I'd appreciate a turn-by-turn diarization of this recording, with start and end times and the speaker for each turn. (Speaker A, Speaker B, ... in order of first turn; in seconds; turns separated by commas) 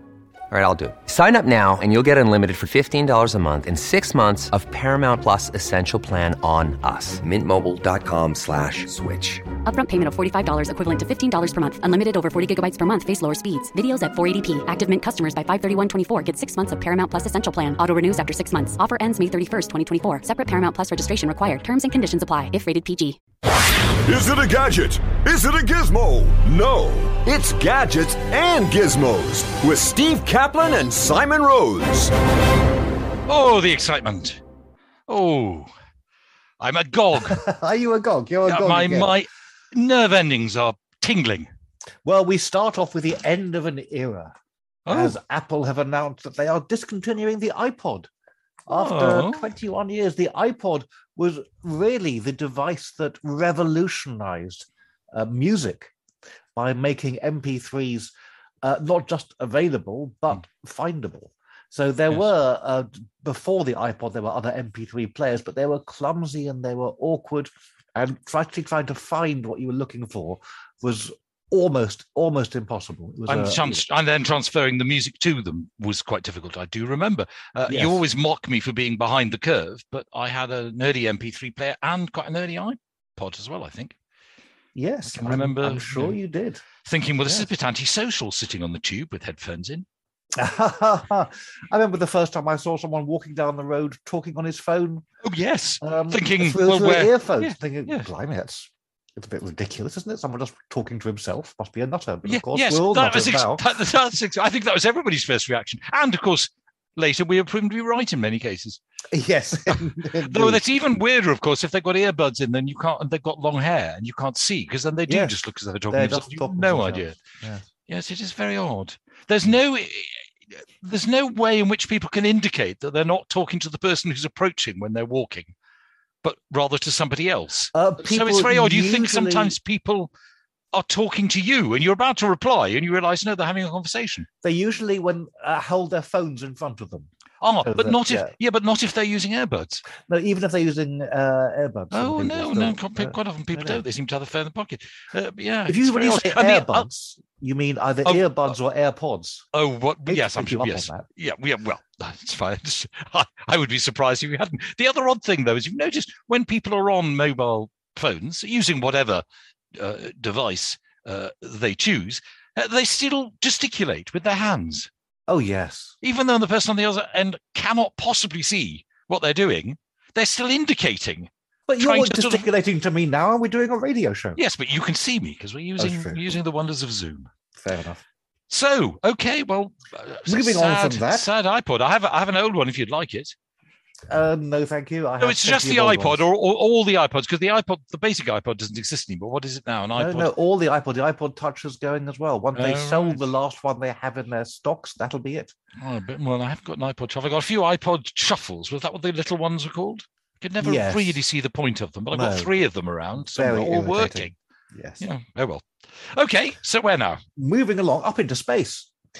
Speaker A: 0.5-9.4, Speaker B: 9.7-23.2, Speaker C: 24.1-32.1, Speaker D: 33.3-34.4, Speaker D: 35.1-35.7, Speaker D: 36.6-37.4, Speaker E: 37.2-39.1, Speaker D: 38.5-41.5, Speaker E: 42.0-44.3, Speaker D: 44.9-45.2, Speaker E: 44.9-48.1, Speaker E: 48.7-55.9, Speaker D: 48.7-49.5, Speaker E: 56.5-58.1, Speaker E: 58.6-73.8, Speaker D: 73.3-84.0, Speaker E: 77.7-78.0, Speaker E: 84.7-86.6, Speaker D: 85.1-86.2, Speaker D: 86.8-89.8, Speaker E: 90.3-95.0, Speaker D: 95.2-98.1, Speaker E: 95.8-103.6, Speaker D: 102.2-108.8, Speaker E: 109.1-110.6, Speaker D: 109.7-117.2, Speaker E: 115.1-115.4, Speaker E: 115.9-117.6, Speaker D: 117.9-125.5, Speaker D: 126.2-130.1, Speaker E: 127.7-129.6, Speaker D: 130.7-134.3, Speaker E: 134.4-137.1, Speaker D: 137.4-139.8, Speaker E: 137.6-138.3, Speaker E: 140.0-143.8, Speaker D: 141.9-146.9, Speaker E: 145.7-149.4, Speaker D: 148.0-148.5, Speaker D: 149.5-164.9, Speaker E: 150.1-151.1, Speaker E: 165.3-165.9, Speaker D: 166.0-172.5, Speaker E: 171.7-174.4, Speaker D: 174.3-177.3, Speaker E: 175.8-176.3, Speaker E: 177.5-178.0, Speaker D: 178.5-183.3, Speaker E: 180.2-181.3, Speaker E: 184.1-186.2, Speaker D: 185.2-190.3, Speaker E: 189.9-195.5, Speaker D: 192.5-193.2, Speaker D: 195.8-204.3, Speaker E: 200.6-201.2, Speaker E: 202.1-202.5, Speaker E: 203.1-205.0, Speaker D: 205.0-207.2, Speaker E: 207.4-208.9